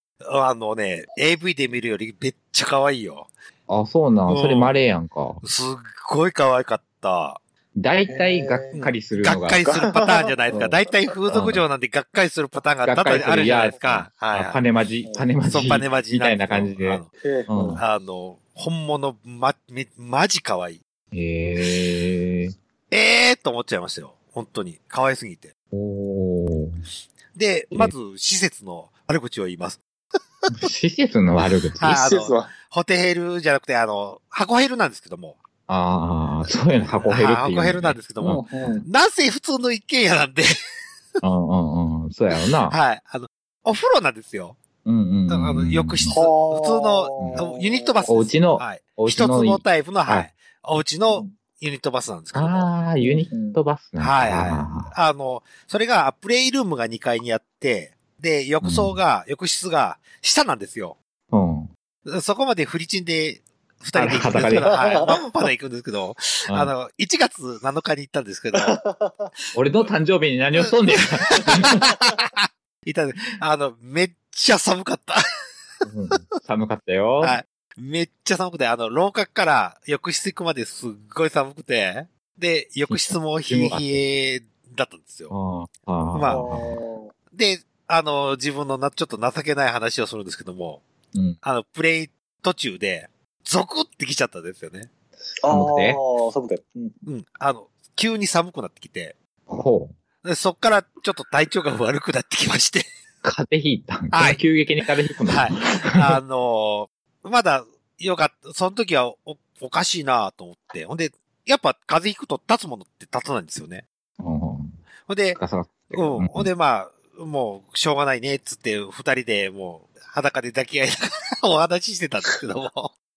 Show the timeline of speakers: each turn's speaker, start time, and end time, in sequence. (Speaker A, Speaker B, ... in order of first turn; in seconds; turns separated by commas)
Speaker A: 0.2-3.3, Speaker B: 3.7-5.4, Speaker A: 4.3-4.8, Speaker A: 5.4-7.4, Speaker B: 7.8-9.7, Speaker C: 8.1-8.8, Speaker A: 8.7-14.6, Speaker C: 9.7-10.7, Speaker B: 11.3-11.6, Speaker B: 12.8-17.8, Speaker A: 15.5-17.1, Speaker C: 17.2-17.8, Speaker A: 17.8-20.8, Speaker B: 21.1-22.5, Speaker A: 22.9-25.5, Speaker B: 25.7-26.8, Speaker A: 27.3-29.8, Speaker B: 30.5-32.0, Speaker A: 31.8-35.4, Speaker C: 31.9-32.5, Speaker B: 35.7-38.4, Speaker A: 37.0-40.5, Speaker C: 38.2-38.8, Speaker B: 41.2-42.8, Speaker A: 42.7-44.6, Speaker B: 44.8-46.2, Speaker A: 45.3-52.7, Speaker C: 46.1-48.1, Speaker B: 47.2-47.5, Speaker B: 48.0-50.3, Speaker B: 52.3-54.9, Speaker C: 53.0-53.6, Speaker A: 54.0-61.0, Speaker B: 58.6-59.0, Speaker B: 61.3-61.7, Speaker A: 62.0-68.8, Speaker B: 63.9-64.8, Speaker C: 64.3-65.5, Speaker B: 66.5-66.7, Speaker C: 68.5-69.3, Speaker B: 69.5-71.8, Speaker A: 71.3-75.2, Speaker B: 75.8-77.4, Speaker A: 77.2-85.3, Speaker B: 82.9-84.0, Speaker B: 85.3-86.8, Speaker A: 86.1-86.4, Speaker C: 86.2-87.1, Speaker A: 87.3-90.8, Speaker B: 91.1-91.4, Speaker A: 91.4-94.9, Speaker C: 95.4-97.0, Speaker B: 95.5-96.0, Speaker A: 97.0-99.1, Speaker B: 99.5-99.9, Speaker A: 100.2-102.9, Speaker B: 103.2-106.2, Speaker A: 104.1-104.4, Speaker A: 105.3-113.8, Speaker B: 114.2-114.8, Speaker A: 115.1-115.4, Speaker B: 115.3-116.5, Speaker A: 115.9-122.9